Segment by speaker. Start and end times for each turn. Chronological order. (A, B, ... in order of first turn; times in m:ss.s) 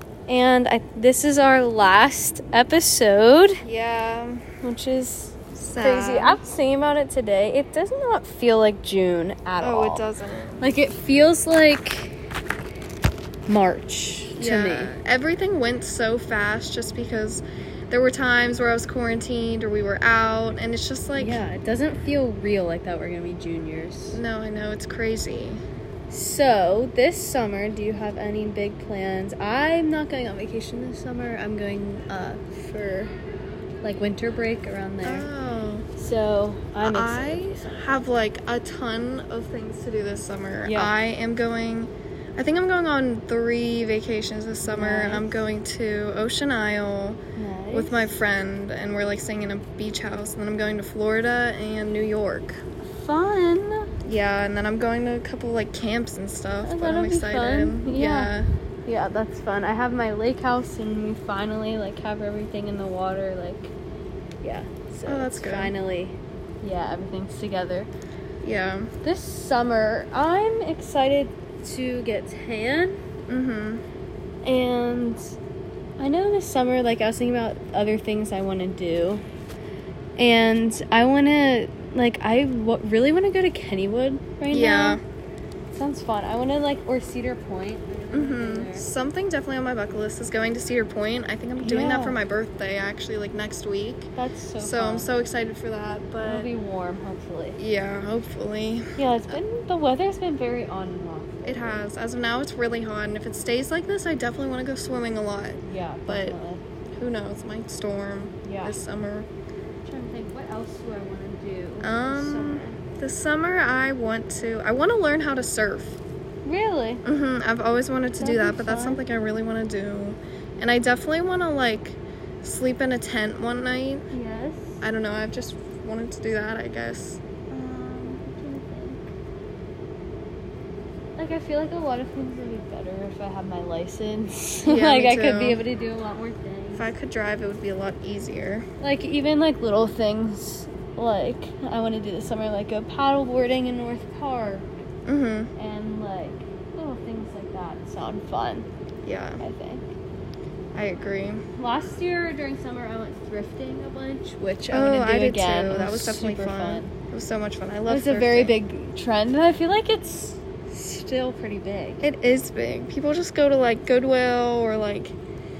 0:00.3-0:03.6 A
0:03.6-0:04.4 B
0:04.6-0:10.0 A
0:05.6-0:06.4 B
0:09.6-0:10.7 B
0:10.6-0:12.1 A
0:13.5-0:14.9 A
0:14.4-0:21.4 B
0:21.2-0:24.2 A
0:24.1-0:25.6 B
0:26.1-0:33.1 A
0:33.8-0:35.3 A
0:35.0-0:35.9 B
0:36.0-0:38.0 A
0:36.8-0:47.2 B
0:40.6-0:40.9 A
0:44.6-0:45.4 A
0:47.4-0:48.1 A
0:47.7-0:52.6 B
0:52.8-0:53.8 A
0:54.0-0:58.5 B
0:56.6-0:58.3 A
0:58.8-1:03.7 A
1:04.4-1:07.9 A
1:05.0-1:05.7 B
1:08.4-1:08.9 B
1:09.0-1:13.0 A
1:13.3-1:13.8 B
1:14.4-1:15.2 A
1:16.0-1:19.2 A
1:20.2-1:25.0 A
1:24.5-1:25.0 B
1:25.7-1:28.8 A
1:28.1-1:36.5 B
1:31.6-1:32.2 A
1:34.2-1:35.1 A
1:36.2-1:37.6 A
1:37.6-1:39.4 B
1:39.0-1:41.8 A
1:41.4-1:46.4 B
1:45.6-1:46.6 A
1:46.9-1:49.3 B
1:48.4-1:48.8 A
1:49.8-1:52.8 A
1:51.8-1:56.0 B
1:56.4-1:57.0 A
1:57.0-2:04.1 B
1:58.2-1:59.0 A
2:04.1-2:04.8 A
2:04.8-2:07.2 B
2:07.5-2:09.0 A
2:11.2-2:16.9 A
2:14.6-2:15.6 B
2:16.7-2:18.6 B
2:18.8-2:24.7 A
2:25.0-2:25.5 B
2:25.6-2:28.7 A
2:29.0-2:29.4 B
2:29.4-2:29.9 A
2:30.7-2:31.4 B
2:31.6-2:36.9 A
2:34.7-2:38.6 B
2:37.9-2:42.0 A
2:42.0-2:45.2 B